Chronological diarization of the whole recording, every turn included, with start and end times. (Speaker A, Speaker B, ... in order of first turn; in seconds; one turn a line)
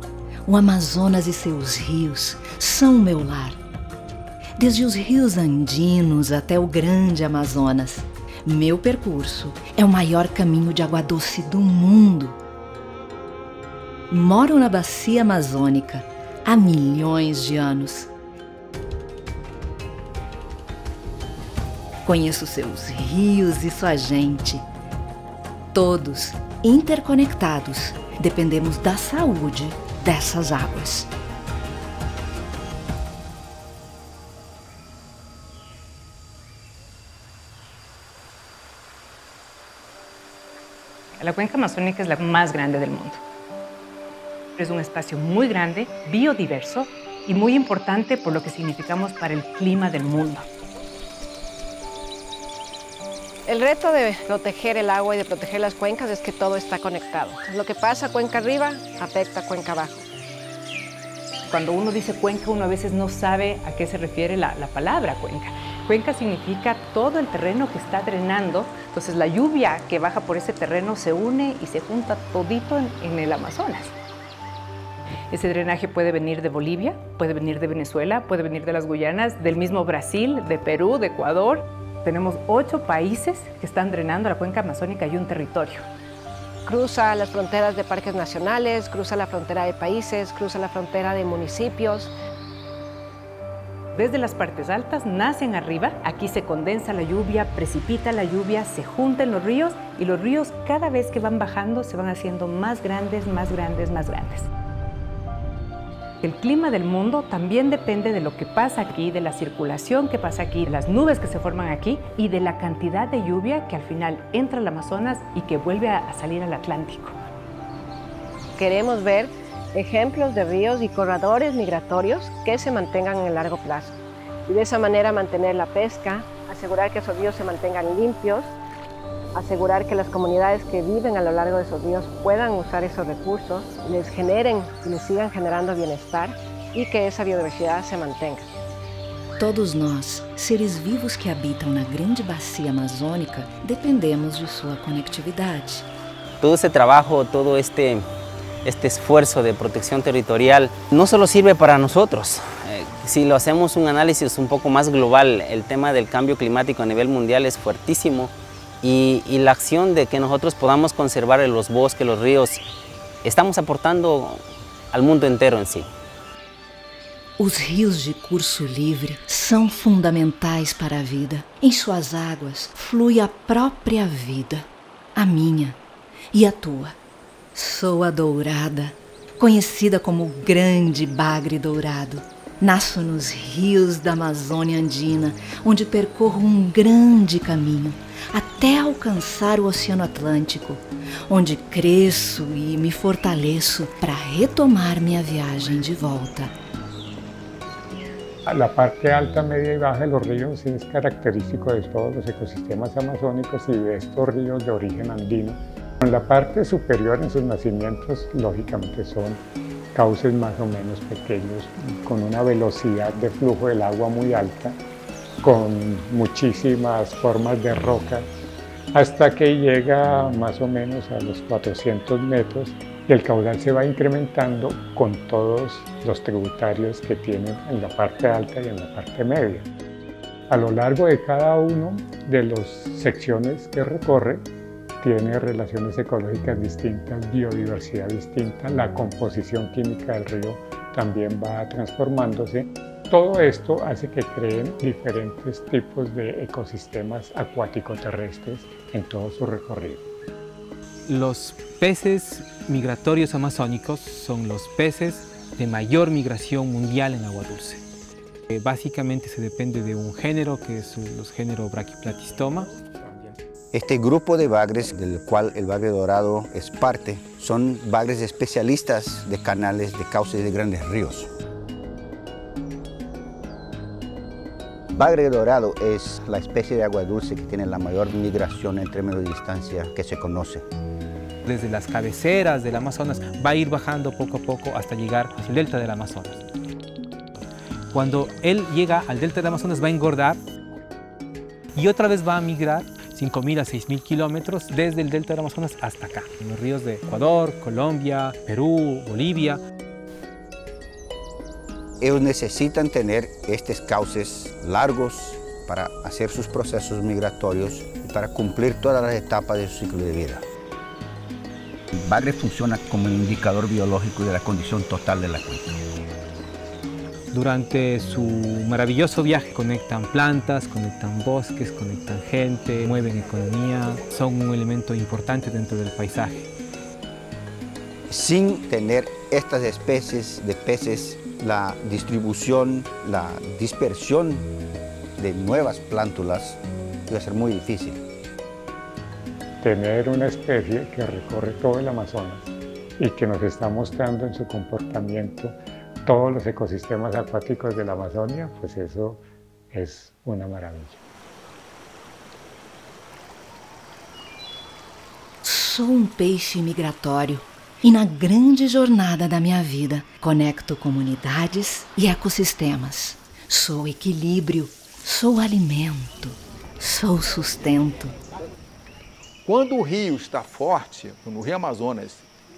Speaker A: 0.5-3.6
Speaker A: 4.6-12.4
Speaker A: 14.1-18.1
Speaker A: 22.0-24.6
Speaker A: 25.7-31.1
Speaker B: 41.2-43.2
Speaker B: 44.5-50.5
Speaker C: 53.5-60.1
Speaker B: 61.5-73.9
Speaker B: 75.3-85.8
Speaker C: 86.7-92.1
Speaker B: 93.9-104.5
Speaker B: 106.2-117.2
Speaker C: 118.6-128.5
Speaker C: 129.3-138.5
Speaker A: 139.4-145.9
Speaker D: 146.4-148.1
Speaker D: 148.6-162.6
Speaker D: 163.2-165.9
Speaker A: 167.4-175.8
Speaker A: 176.3-177.0
Speaker A: 177.5-196.5
Speaker E: 198.4-209.4
Speaker E: 209.9-214.8
Speaker E: 215.4-218.3
Speaker E: 218.9-229.7
Speaker E: 230.5-234.5
Speaker E: 235.0-250.0
Speaker F: 251.1-257.8
Speaker F: 258.5-262.7
Speaker G: 263.7-271.3
Speaker G: 274.9-280.6
Speaker F: 281.4-286.4
Speaker F: 287.9-290.4
Speaker F: 291.7-299.6
Speaker G: 302.0-310.4
Speaker G: 311.9-315.8
Speaker F: 317.3-326.5
Speaker G: 328.1-334.5
Speaker G: 335.2-338.0
Speaker E: 339.6-351.0
Speaker A: 355.4-368.1
Speaker H: 369.4-372.3